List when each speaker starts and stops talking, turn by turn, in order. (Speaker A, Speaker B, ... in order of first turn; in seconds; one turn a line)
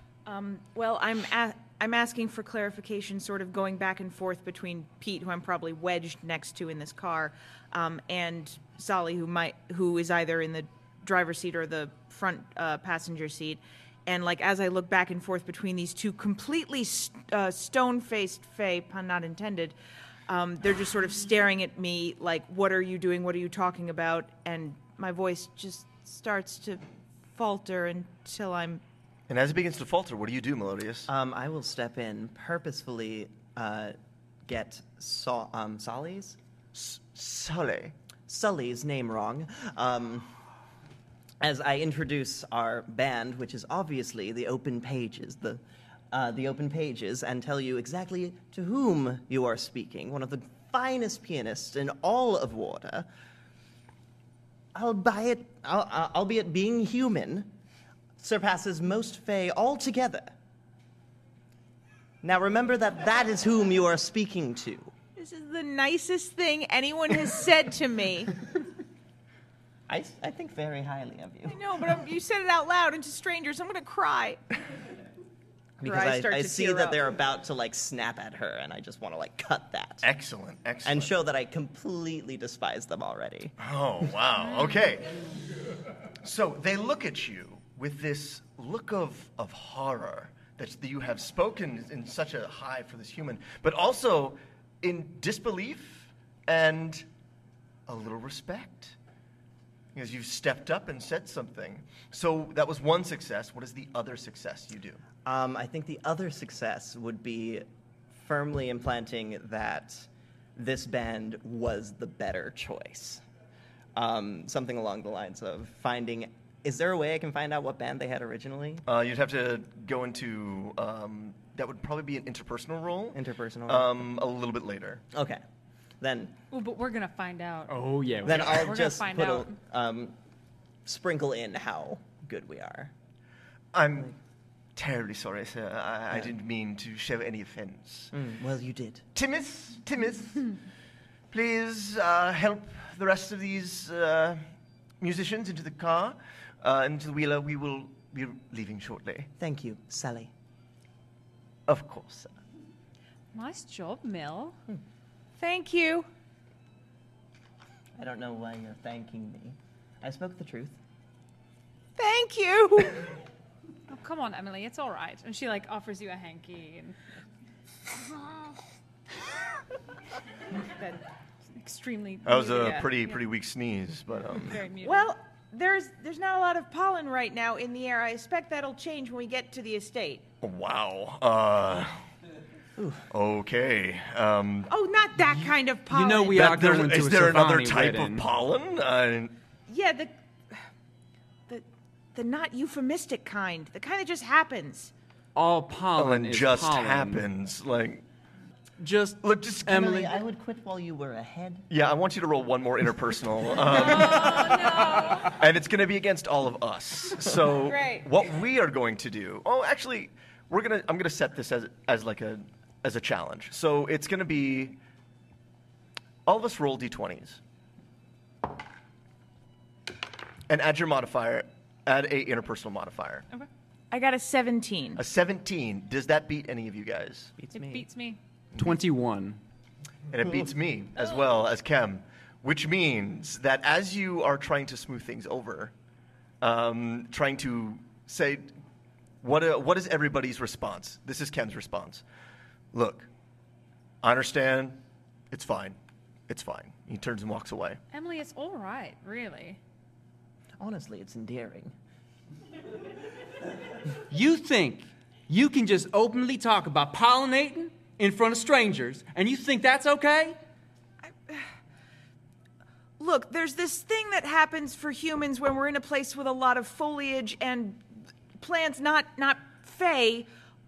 Speaker A: 0.3-19.8
Speaker A: 20.3-26.8
Speaker A: 27.3-28.8
Speaker B: 29.3-31.1
Speaker C: 31.1-34.0
Speaker C: 34.5-36.4
Speaker B: 36.7-37.9
Speaker C: 38.3-40.3
Speaker C: 41.4-53.1
Speaker C: 54.8-57.5
Speaker C: 58.2-60.3
Speaker C: 62.2-64.9
Speaker A: 65.2-68.4
Speaker C: 69.9-71.6
Speaker A: 71.5-74.4
Speaker C: 75.8-80.1
Speaker A: 75.8-77.1
Speaker B: 80.0-81.1
Speaker C: 80.8-83.5
Speaker B: 83.6-85.3
Speaker B: 86.2-97.1
Speaker B: 97.9-99.0
Speaker B: 99.9-105.0
Speaker C: 105.2-113.2
Speaker C: 114.0-118.8
Speaker B: 118.9-125.0
Speaker C: 123.1-124.0
Speaker C: 125.1-125.4
Speaker C: 126.0-126.3
Speaker D: 126.5-127.8
Speaker E: 127.7-128.7
Speaker C: 128.2-130.2
Speaker D: 128.3-129.6
Speaker C: 130.8-132.9
Speaker B: 133.7-134.1
Speaker B: 134.8-138.1
Speaker C: 138.1-139.1
Speaker B: 139.2-140.5
Speaker B: 141.3-144.4
Speaker B: 145.0-149.3
Speaker C: 149.4-150.3
Speaker B: 151.7-152.3
Speaker D: 153.3-154.6
Speaker A: 155.4-156.1
Speaker C: 158.0-160.8
Speaker A: 162.0-163.1
Speaker D: 163.9-167.0
Speaker D: 171.5-173.2
Speaker B: 172.2-174.6
Speaker D: 174.3-175.1
Speaker A: 174.8-180.3
Speaker B: 180.4-182.0
Speaker C: 182.8-183.1
Speaker B: 183.1-184.7
Speaker A: 184.7-186.4
Speaker E: 185.5-188.2
Speaker B: 186.3-189.3
Speaker A: 189.7-190.1
Speaker A: 191.5-194.9
Speaker E: 195.3-197.3
Speaker B: 196.0-198.0
Speaker E: 198.8-200.2
Speaker B: 199.2-199.9
Speaker C: 199.7-201.7
Speaker B: 201.7-214.8
Speaker D: 203.9-205.3
Speaker A: 204.0-205.2
Speaker A: 207.7-208.1
Speaker B: 216.3-217.4
Speaker B: 220.5-223.3
Speaker A: 223.9-225.0
Speaker B: 225.0-227.3
Speaker C: 227.4-227.9
Speaker D: 227.5-228.2
Speaker E: 228.6-229.4
Speaker B: 230.1-235.7
Speaker B: 236.4-238.6
Speaker B: 239.2-242.0
Speaker B: 242.7-243.1
Speaker B: 244.0-244.8
Speaker B: 245.3-245.8
Speaker B: 246.3-247.8
Speaker D: 247.9-249.6
Speaker C: 250.6-251.7
Speaker E: 254.1-260.4
Speaker A: 261.0-261.5
Speaker A: 263.0-267.8
Speaker A: 268.4-270.3